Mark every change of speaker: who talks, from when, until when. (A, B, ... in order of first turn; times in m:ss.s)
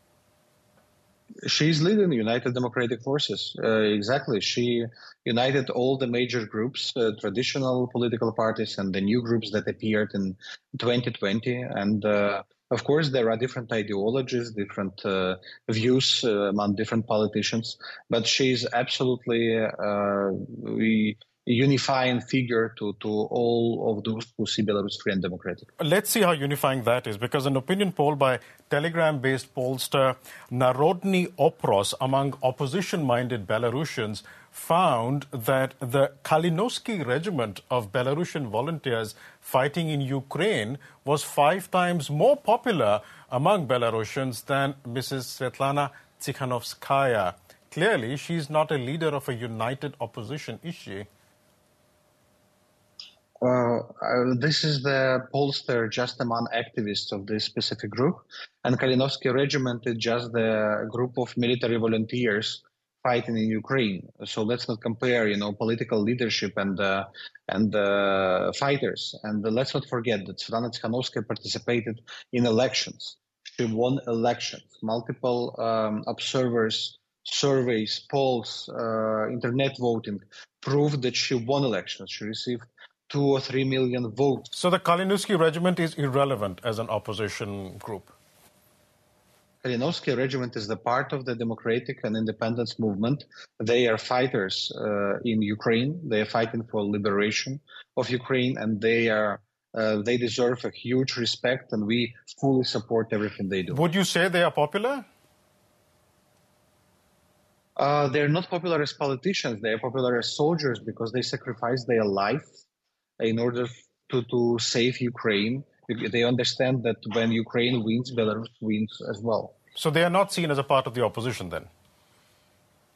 0:01.4-0:25.7 A
0:25.8-0:51.1 B
0:53.4-1:24.5 A
1:24.5-1:28.1 B
1:29.6-1:43.8 A
1:43.7-1:45.0 B
1:47.8-1:52.5 A
1:53.2-1:59.5 A
1:59.8-2:01.7 B